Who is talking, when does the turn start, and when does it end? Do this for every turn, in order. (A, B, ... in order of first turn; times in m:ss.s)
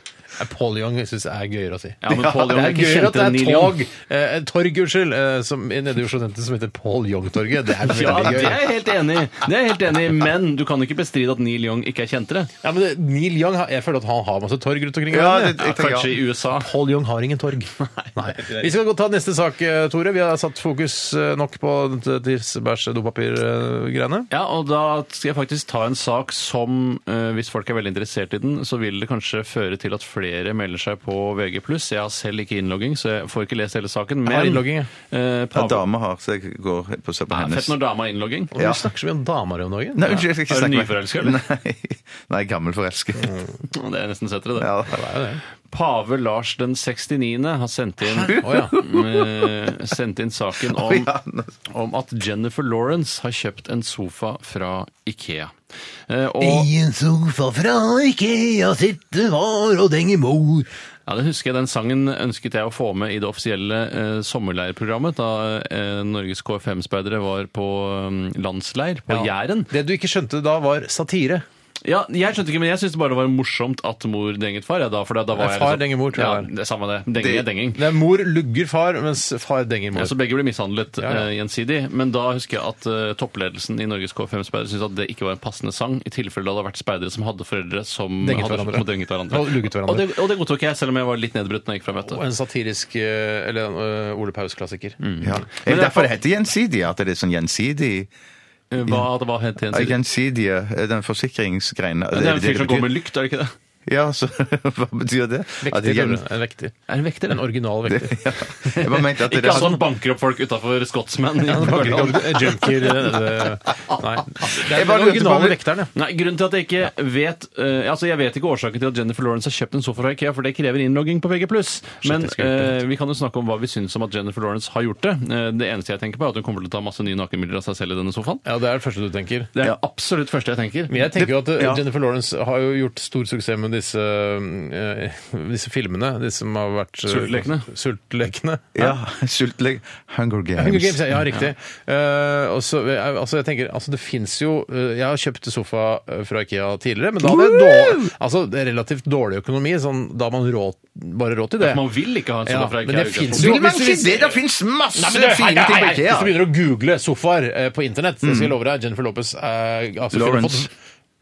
0:00.4-0:08.6 A
0:02.0-0:03.8 B
0:02.1-0:02.4 C
0:07.8-0:12.5 B
0:12.6-0:15.6 A
0:15.1-0:16.1 C
0:15.6-0:16.7 B
0:16.6-0:24.3 A
0:17.8-0:18.7 B
0:24.3-0:35.8 B
0:34.2-0:34.9 A
0:35.5-0:37.8 C
0:37.3-0:38.5 B
0:38.6-0:40.1 A
0:38.6-0:38.9 C
0:40.0-0:43.3 C
0:40.1-0:41.4 B
0:43.2-0:43.5 A
0:43.7-0:44.9 B
0:44.6-0:45.0 C
0:44.9-0:45.4 A
0:45.7-0:51.1 B
0:48.2-0:48.8 A
0:48.2-0:49.5 C
0:50.6-0:51.6 C
0:51.7-0:55.6 B
0:56.1-0:56.7 B
0:56.4-1:00.7 A
1:01.1-1:09.7 B
1:09.1-1:11.4 A
1:11.8-1:17.8 B
1:15.4-1:16.5 A
1:17.2-1:17.5 C
1:17.8-1:20.1 A
1:20.0-1:32.2 B
1:21.0-1:21.3 A
1:28.2-1:30.1 A
1:32.0-1:35.4 A
1:35.0-1:36.1 B
1:35.2-1:38.1 C
1:38.7-1:40.0 B
1:39.7-1:43.0 C
1:42.1-1:43.5 B
1:43.9-1:46.2 C
1:45.6-1:48.2 A
1:46.9-1:47.4 B
1:47.9-1:49.8 C
1:48.8-1:52.8 B
1:49.5-1:49.8 A
1:51.5-1:55.9 A
1:54.5-1:55.6 C
1:56.0-2:08.4 B
2:02.0-2:02.8 A
2:08.4-2:09.5 A
2:09.6-2:11.0 B
2:10.9-2:18.9 A
2:11.2-2:11.8 C
2:17.1-2:17.7 B
2:18.8-2:21.1 C
2:20.6-2:31.8 A
2:27.2-2:28.1 C
2:31.6-2:33.6 B
2:32.5-2:34.4 A
2:33.4-2:36.4 C
2:35.0-2:40.7 A
2:38.2-2:38.6 C
2:40.1-2:40.7 C